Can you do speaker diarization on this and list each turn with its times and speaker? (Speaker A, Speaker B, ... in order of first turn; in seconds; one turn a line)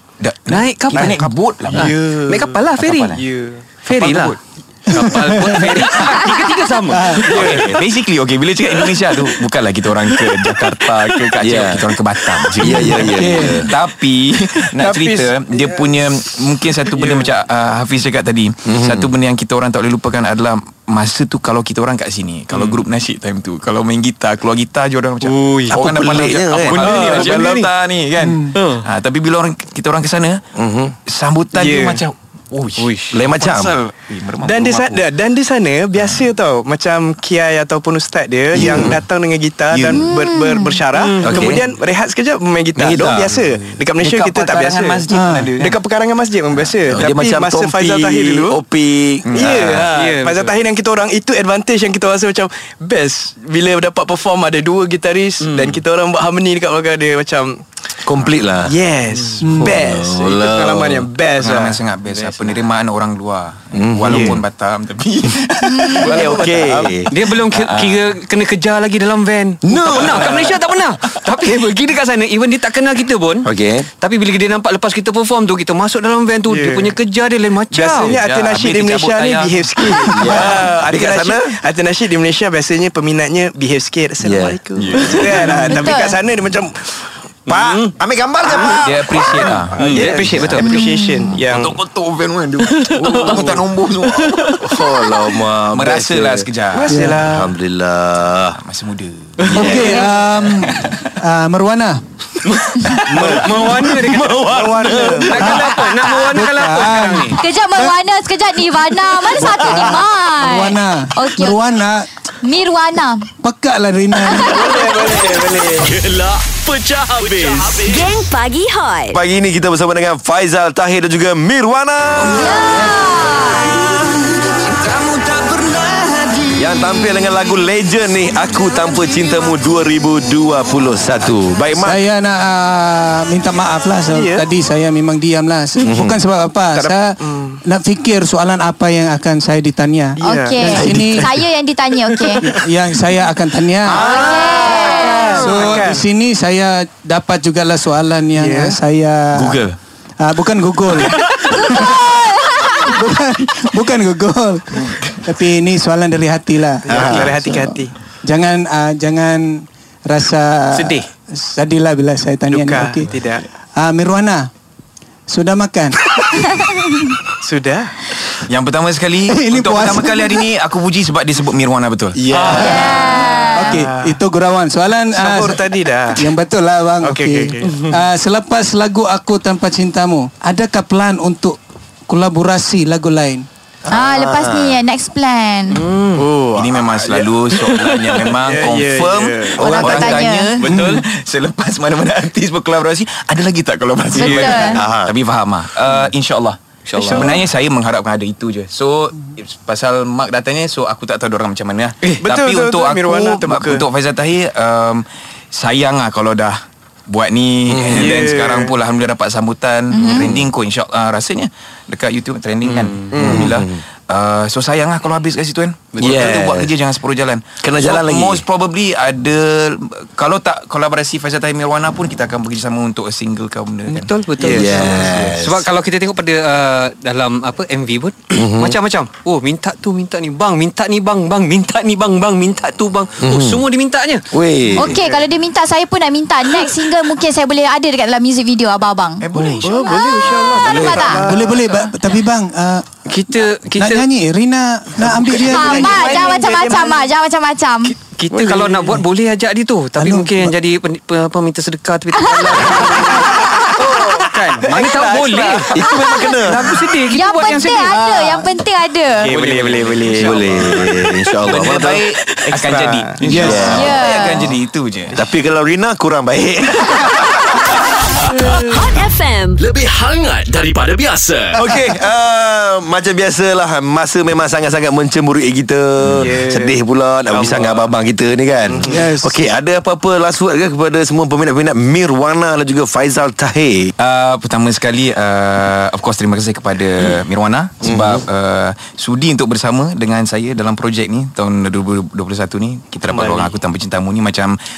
Speaker A: 0.2-2.0
Speaker B: 0.5-3.2
Speaker C: 1.7-2.6
Speaker A: 2.8-3.2
Speaker C: 3.1-3.7
Speaker B: 3.9-7.7
Speaker A: 3.9-4.4
Speaker D: 4.9-5.7
Speaker D: 6.9-7.2
Speaker A: 7.3-30.4
Speaker C: 7.3-7.7
Speaker E: 11.4-11.8
Speaker E: 12.6-13.7
Speaker C: 14.8-16.2
Speaker C: 16.9-17.3
Speaker E: 18.6-19.1
Speaker B: 22.5-22.8
Speaker B: 25.2-25.8
Speaker E: 25.7-27.2
Speaker B: 26.7-27.5
Speaker C: 26.7-27.7
Speaker B: 28.5-28.9
Speaker E: 30.6-30.9
Speaker A: 31.1-35.1
Speaker C: 31.5-32.0
Speaker B: 32.8-33.1
Speaker E: 33.1-33.8
Speaker C: 34.4-45.0
Speaker A: 36.0-36.3
Speaker E: 38.5-39.0
Speaker A: 38.7-38.9
Speaker A: 39.7-40.1
Speaker F: 39.9-40.8
Speaker B: 40.9-41.6
Speaker E: 41.2-41.6
Speaker E: 42.8-43.4
Speaker A: 44.0-45.8
Speaker D: 45.1-45.5
Speaker C: 45.6-48.6
Speaker E: 46.9-49.9
Speaker A: 49.2-49.8
Speaker C: 49.3-57.6
Speaker B: 49.9-50.6
Speaker B: 55.4-55.8
Speaker E: 58.1-58.7
Speaker C: 58.7-61.8
Speaker B: 59.1-59.4
Speaker D: 59.4-59.7
Speaker E: 59.6-61.1
Speaker A: 61.4-66.5
Speaker B: 62.1-62.6
Speaker E: 63.7-64.4
Speaker C: 64.1-64.4
Speaker F: 65.7-66.1
Speaker C: 66.0-66.9
Speaker E: 66.1-67.1
Speaker B: 67.1-73.5
Speaker A: 67.3-68.0
Speaker E: 69.6-70.6
Speaker E: 73.5-73.9
Speaker B: 74.0-78.2
Speaker C: 76.5-77.0
Speaker C: 77.7-87.0
Speaker A: 77.9-79.8
Speaker E: 80.1-81.6
Speaker E: 84.2-84.6
Speaker A: 84.8-85.5
Speaker B: 85.3-85.6
Speaker F: 85.7-86.2
Speaker B: 87.5-87.9
Speaker E: 87.5-90.3
Speaker A: 88.8-90.8
Speaker C: 89.4-91.8
Speaker B: 89.8-90.7
Speaker F: 90.6-91.4
Speaker A: 91.4-94.6
Speaker B: 92.6-93.5
Speaker C: 93.0-93.6
Speaker B: 94.1-94.8
Speaker E: 94.6-96.5
Speaker A: 95.7-97.0
Speaker C: 96.7-97.5
Speaker D: 96.9-97.2
Speaker E: 97.2-98.6
Speaker A: 98.5-99.5
Speaker E: 99.5-100.0
Speaker D: 99.5-102.0
Speaker F: 99.7-100.0
Speaker A: 100.6-101.1
Speaker B: 102.4-104.4
Speaker C: 103.1-103.5
Speaker E: 103.1-106.0
Speaker C: 104.5-105.5
Speaker B: 105.0-107.4
Speaker D: 105.4-105.7
Speaker D: 106.2-107.9
Speaker F: 107.4-111.6
Speaker D: 109.4-112.1
Speaker F: 112.4-113.3
Speaker D: 113.4-114.7
Speaker F: 114.2-114.6
Speaker C: 114.4-115.9
Speaker G: 114.8-118.1
Speaker H: 117.8-119.2
Speaker E: 119.1-123.0
Speaker F: 122.2-123.9
Speaker E: 126.5-132.0
Speaker D: 131.8-137.1
Speaker C: 134.1-134.4
Speaker E: 135.8-136.2
Speaker C: 136.7-137.6
Speaker D: 137.7-141.3
Speaker C: 140.2-141.0
Speaker F: 140.2-142.5
Speaker E: 140.9-141.4
Speaker C: 142.1-142.5
Speaker D: 142.5-144.1
Speaker F: 143.9-145.6
Speaker C: 143.9-146.1
Speaker E: 144.0-144.8
Speaker D: 145.3-149.6
Speaker C: 148.4-148.8
Speaker E: 149.3-149.8
Speaker D: 150.2-157.7
Speaker F: 151.5-153.0
Speaker C: 156.9-157.9
Speaker E: 156.9-157.4
Speaker D: 158.2-163.1
Speaker B: 160.7-161.1
Speaker C: 162.5-163.4
Speaker D: 163.8-164.5
Speaker D: 165.3-166.5
Speaker F: 166.6-166.9
Speaker C: 167.4-167.9
Speaker A: 168.5-172.2
Speaker D: 169.3-170.4
Speaker E: 172.2-172.9
Speaker C: 172.4-174.2
Speaker D: 172.4-172.8
Speaker F: 172.5-173.8
Speaker B: 172.6-173.0
Speaker D: 173.5-181.6
Speaker C: 175.2-176.3
Speaker C: 177.0-177.9
Speaker B: 177.6-177.9
Speaker D: 182.1-183.4
Speaker E: 183.9-184.8
Speaker F: 183.9-185.8
Speaker B: 185.7-186.3
Speaker C: 186.1-187.3
Speaker A: 186.5-224.1
Speaker B: 187.7-188.0
Speaker C: 188.3-190.2
Speaker E: 189.6-190.3
Speaker F: 189.6-190.6
Speaker B: 190.6-191.0
Speaker F: 194.1-194.8
Speaker B: 194.2-194.7
Speaker E: 194.7-195.1
Speaker B: 196.9-197.4
Speaker C: 197.1-197.4
Speaker C: 202.2-203.8
Speaker E: 207.7-208.1
Speaker C: 207.9-208.7
Speaker F: 209.9-210.3
Speaker E: 210.1-210.4
Speaker B: 212.6-213.2
Speaker C: 213.1-213.5
Speaker E: 213.2-213.8
Speaker E: 216.0-216.7
Speaker E: 217.6-218.4
Speaker B: 223.9-234.3
Speaker C: 224.4-225.1
Speaker E: 224.5-225.7
Speaker E: 228.3-228.8
Speaker E: 233.2-233.6
Speaker E: 234.3-235.0
Speaker F: 234.8-241.2
Speaker C: 234.8-235.3
Speaker A: 239.2-240.0
Speaker C: 239.3-241.8
Speaker D: 241.1-242.9
Speaker B: 243.1-244.1
Speaker D: 243.8-246.2
Speaker C: 245.1-247.1
Speaker F: 245.4-247.9
Speaker B: 248.0-258.1
Speaker C: 248.3-248.9
Speaker D: 250.0-250.5
Speaker F: 252.2-252.5
Speaker C: 252.4-255.9
Speaker F: 253.4-253.7
Speaker E: 255.7-256.8
Speaker F: 255.9-256.4
Speaker F: 257.1-259.3
Speaker D: 258.1-258.4
Speaker C: 259.2-260.8
Speaker B: 259.2-261.1
Speaker E: 260.2-262.0
Speaker A: 260.2-260.7
Speaker A: 261.4-265.2
Speaker C: 262.5-263.7
Speaker E: 263.3-264.0
Speaker F: 263.7-264.5
Speaker E: 265.1-267.7
Speaker H: 268.6-269.6
Speaker G: 269.6-271.7
Speaker E: 271.6-283.9
Speaker A: 276.0-276.3
Speaker C: 276.1-276.8
Speaker C: 277.3-277.8
Speaker C: 278.7-279.0
Speaker D: 278.9-279.4
Speaker A: 284.0-294.6
Speaker E: 287.8-288.2
Speaker B: 293.2-293.4